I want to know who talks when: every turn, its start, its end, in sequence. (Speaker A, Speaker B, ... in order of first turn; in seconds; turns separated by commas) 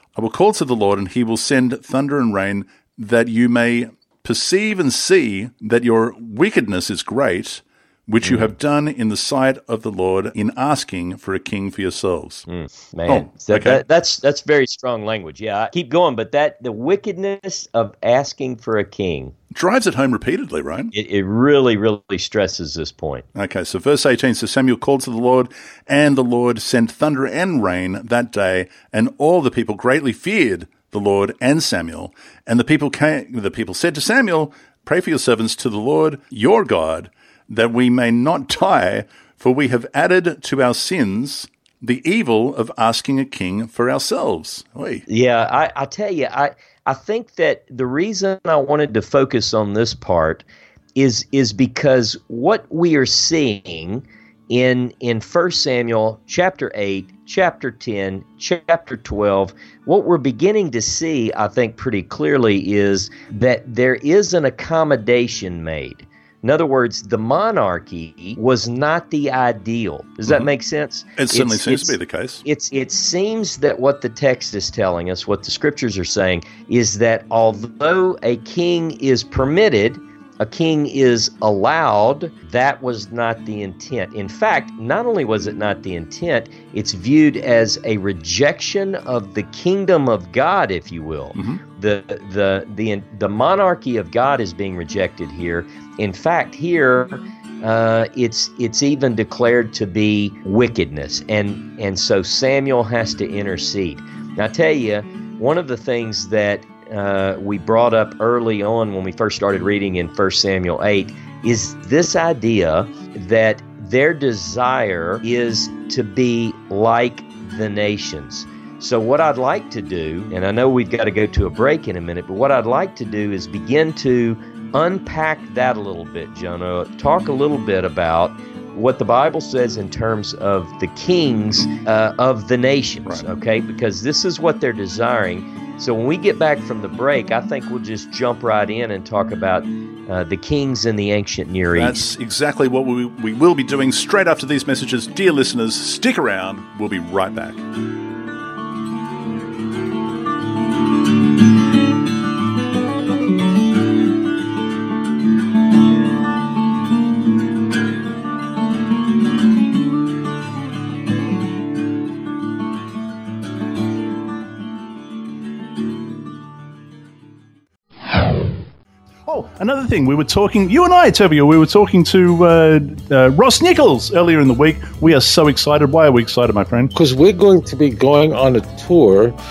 Speaker A: 0.2-12.4, Speaker B: 8.2-8.5, Speaker B: 12.5-19.3, Speaker A: 13.1-13.8, Speaker A: 19.5-20.9, Speaker B: 20.9-23.3, Speaker A: 23.4-45.0, Speaker B: 45.1-50.5, Speaker B: 51.0-142.0, Speaker A: 71.2-72.4, Speaker A: 91.4-91.6, Speaker A: 141.8-147.6, Speaker A: 169.3-176.9, Speaker C: 176.9-179.3